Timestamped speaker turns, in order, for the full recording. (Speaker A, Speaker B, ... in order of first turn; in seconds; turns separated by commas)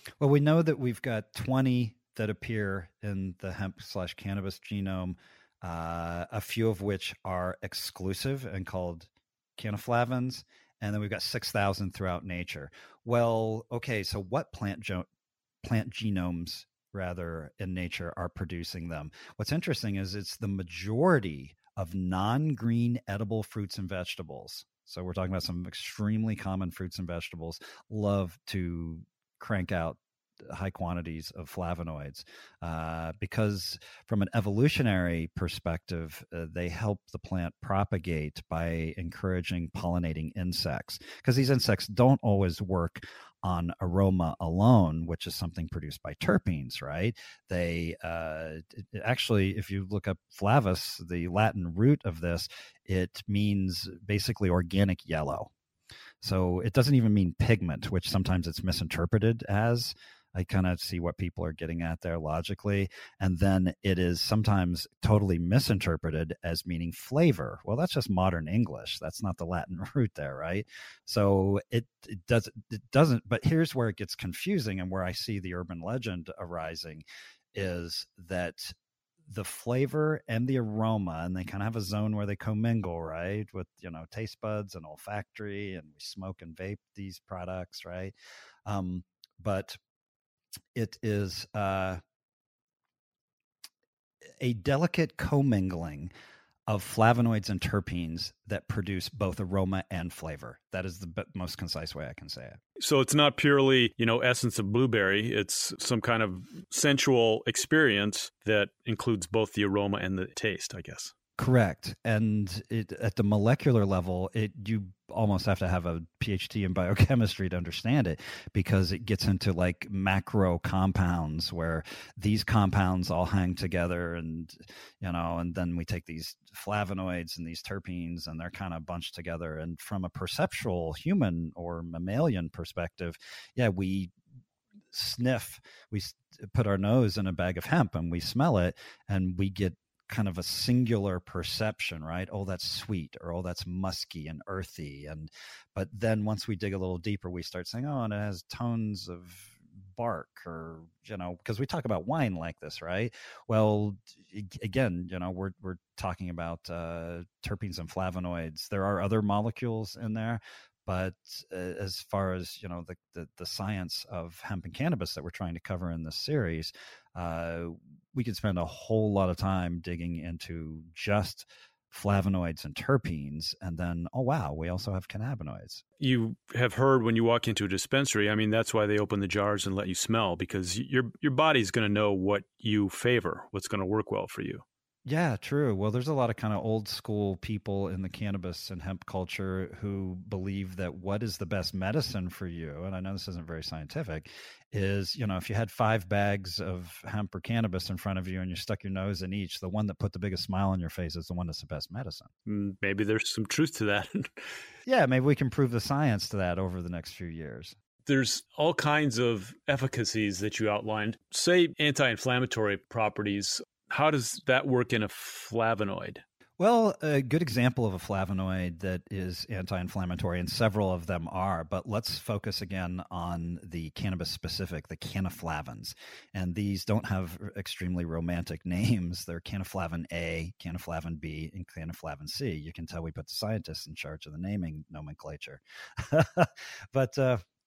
Speaker A: 0.2-15.1, Speaker A: 15.6-55.5, Speaker A: 56.2-78.7, Speaker A: 79.2-88.1, Speaker A: 88.7-89.8, Speaker A: 90.8-92.0, Speaker A: 94.4-96.1, Speaker A: 96.7-102.6, Speaker B: 102.8-111.1, Speaker A: 111.4-134.1, Speaker A: 134.9-175.8, Speaker B: 176.0-184.6, Speaker A: 185.1-202.3, Speaker B: 202.5-204.3, Speaker A: 204.9-207.8, Speaker B: 208.1-216.2, Speaker A: 216.6-237.4